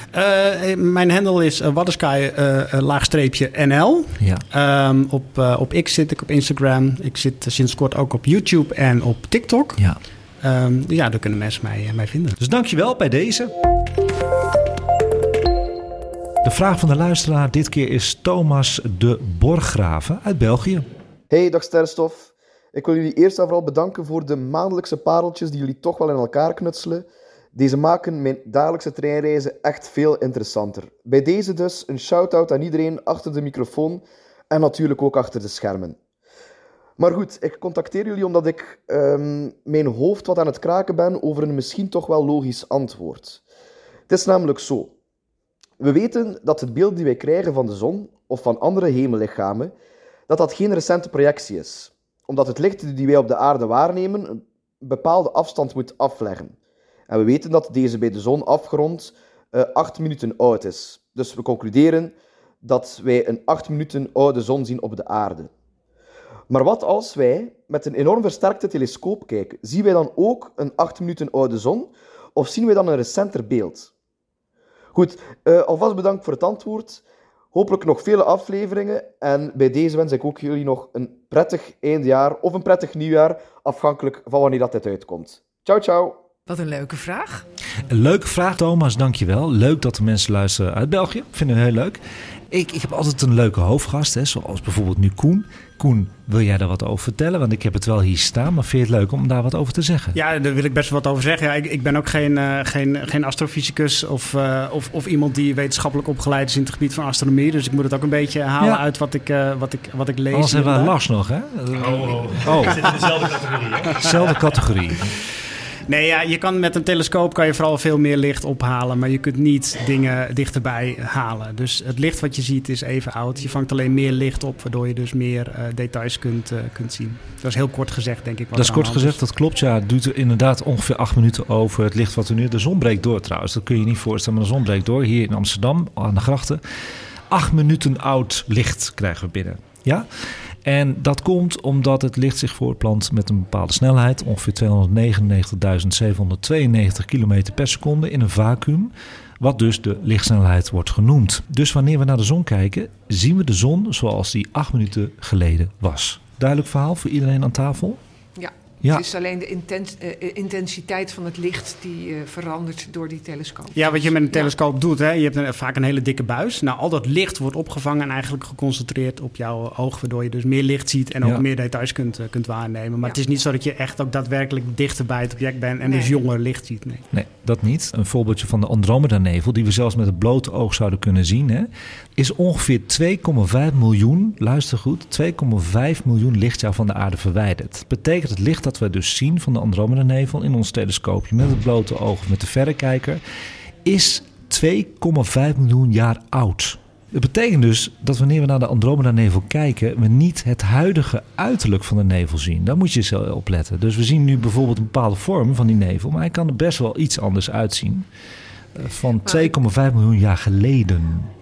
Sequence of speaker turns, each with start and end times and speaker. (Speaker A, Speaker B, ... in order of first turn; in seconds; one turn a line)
Speaker A: 0.1-9.8
Speaker A: 10.4-12.4
Speaker B: 12.4-13.5
Speaker B: 16.4-20.9
Speaker C: 21.3-36.0
Speaker C: 37.0-43.4
Speaker C: 44.1-44.9
Speaker C: 45.8-49.7
Speaker C: 50.3-56.5
Speaker C: 57.1-65.5
Speaker C: 66.5-73.9
Speaker C: 75.0-77.0
Speaker C: 77.5-86.2
Speaker D: 86.5-87.4
Speaker B: 87.9-100.2
Speaker A: 100.1-111.0
Speaker B: 110.3-113.0
Speaker E: 111.8-114.4
Speaker A: 112.5-113.1
Speaker B: 114.0-115.1
Speaker A: 115.9-129.2
Speaker B: 128.5-136.6
Speaker B: 137.3-140.1
Speaker B: 140.6-158.0
Speaker D: 158.4-164.5
Speaker A: 163.8-177.1
Speaker B: 171.2-171.5
Speaker D: 175.8-176.1
Speaker B: 177.1-193.2
Speaker B: 193.8-208.1
Speaker B: 208.8-211.3